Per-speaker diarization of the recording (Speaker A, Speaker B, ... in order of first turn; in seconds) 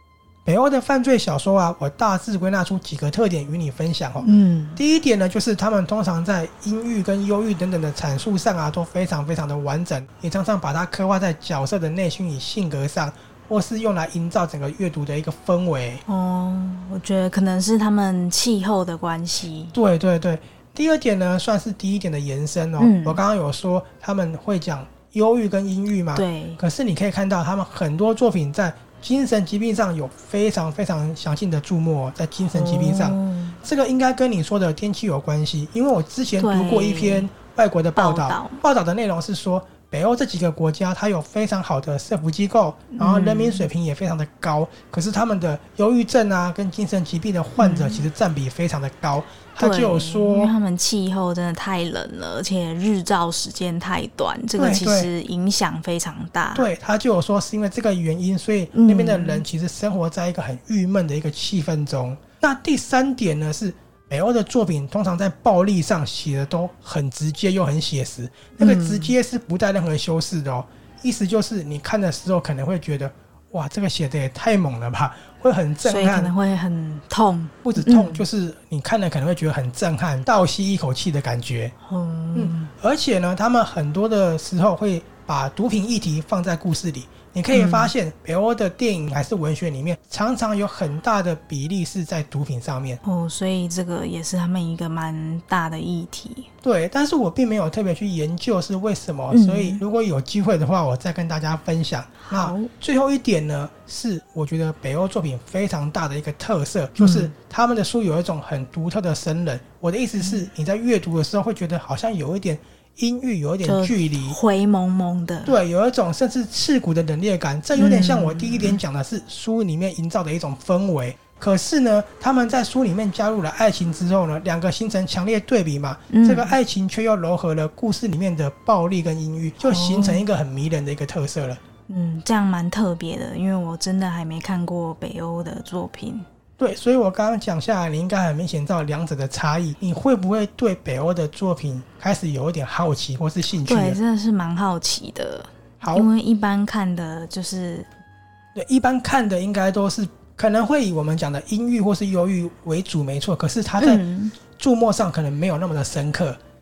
Speaker A: 0.5-16.0, 19.7-50.5, 54.6-55.1, 56.5-76.3, 77.6-81.7, 82.3-93.0, 96.6-114.4, 115.5-131.6, 136.6-144.0, 145.8-146.1, 148.5-156.4
Speaker B: 4.2-4.8, 16.1-19.7, 22.8-23.2, 26.1-26.6, 32.5-33.6, 36.4-37.3, 38.0-38.6, 42.9-43.7, 47.6-48.1, 49.6-56.7, 58.7-59.5, 68.6-69.2, 75.8-78.2, 81.8-82.7, 87.5-87.9, 93.0-96.5, 99.3-99.8, 102.3-102.7, 107.0-107.3, 110.2-110.5, 113.6-115.6, 117.8-118.8, 126.1-126.5, 129.6-130.2, 131.9-136.3, 143.7-147.9, 153.8-154.3